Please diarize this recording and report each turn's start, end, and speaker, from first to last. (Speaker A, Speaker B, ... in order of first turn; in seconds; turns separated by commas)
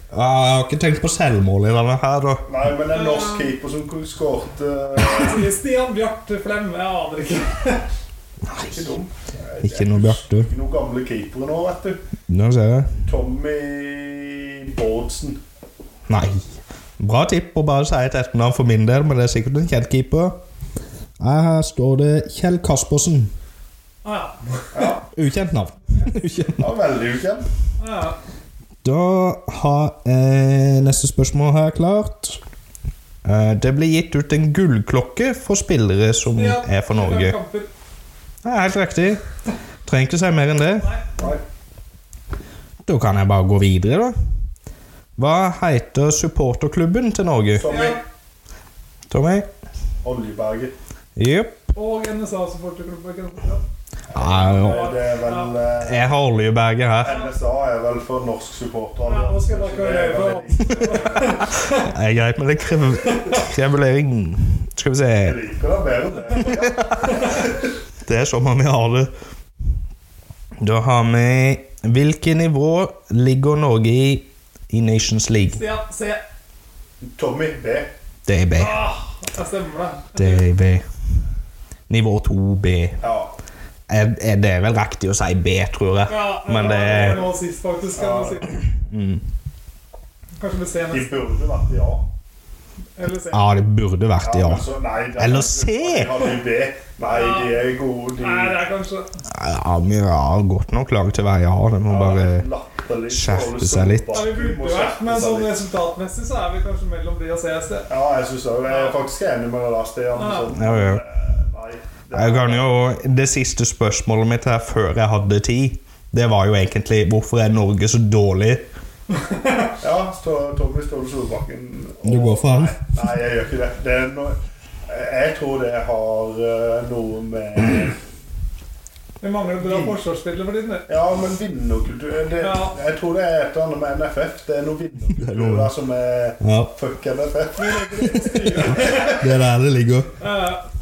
Speaker A: 0.1-2.5, Speaker B: 2.5-5.5, Speaker C: 2.9-3.6, Speaker C: 5.0-7.9, Speaker A: 8.4-8.9, Speaker B: 8.7-12.0, Speaker A: 9.6-10.5, Speaker A: 12.3-12.9, Speaker B: 13.1-15.4, Speaker A: 16.1-16.4, Speaker A: 17.0-20.4, Speaker A: 21.2-23.3, Speaker C: 24.0-24.9, Speaker B: 24.7-25.1, Speaker A: 25.1-26.7, Speaker B: 26.6-27.5, Speaker C: 27.8-28.2, Speaker A: 28.8-32.4, Speaker A: 33.2-37.4, Speaker C: 36.3-37.7, Speaker A: 38.4-39.2, Speaker A: 39.9-40.9, Speaker C: 40.8-41.3, Speaker A: 42.9-44.1, Speaker A: 45.2-47.7, Speaker B: 47.5-48.0, Speaker C: 47.7-48.0, Speaker A: 49.1-49.5, Speaker B: 50.0-50.7, Speaker A: 51.2-51.6, Speaker C: 51.7-53.6, Speaker B: 54.1-56.1, Speaker A: 54.1-54.9, Speaker C: 54.3-55.8, Speaker A: 55.8-57.2, Speaker B: 57.0-61.4, Speaker C: 57.0-57.4, Speaker C: 59.0-61.9, Speaker A: 61.7-65.4, Speaker C: 63.0-63.4, Speaker B: 65.2-67.5, Speaker A: 68.0-69.1, Speaker A: 70.6-75.6, Speaker C: 75.5-76.2, Speaker B: 77.0-77.9, Speaker A: 78.3-78.8, Speaker C: 78.6-80.5, Speaker A: 80.2-80.8, Speaker A: 81.9-83.0, Speaker B: 83.0-83.3, Speaker A: 83.9-87.2, Speaker C: 86.1-88.6, Speaker B: 86.6-87.3, Speaker B: 88.0-88.4, Speaker A: 88.7-89.2, Speaker C: 90.4-91.4, Speaker B: 90.9-92.1, Speaker C: 93.0-93.5, Speaker A: 93.3-94.7, Speaker B: 94.2-98.6, Speaker A: 95.2-96.2, Speaker C: 96.2-96.4, Speaker C: 97.0-99.1, Speaker A: 99.3-102.5, Speaker B: 101.9-105.6, Speaker A: 103.1-104.1, Speaker C: 104.1-107.9, Speaker B: 107.9-112.7, Speaker C: 108.7-109.0, Speaker C: 110.1-110.6, Speaker A: 110.5-111.0, Speaker A: 112.1-118.7, Speaker C: 119.1-119.8, Speaker B: 119.8-124.4, Speaker A: 122.0-122.8, Speaker B: 124.9-128.0, Speaker C: 129.2-130.9, Speaker B: 129.5-130.0, Speaker B: 130.9-137.9, Speaker C: 132.4-132.8, Speaker A: 135.2-135.7, Speaker A: 136.4-136.7, Speaker C: 137.6-139.2, Speaker A: 138.4-140.1, Speaker B: 138.7-139.1, Speaker C: 140.2-140.6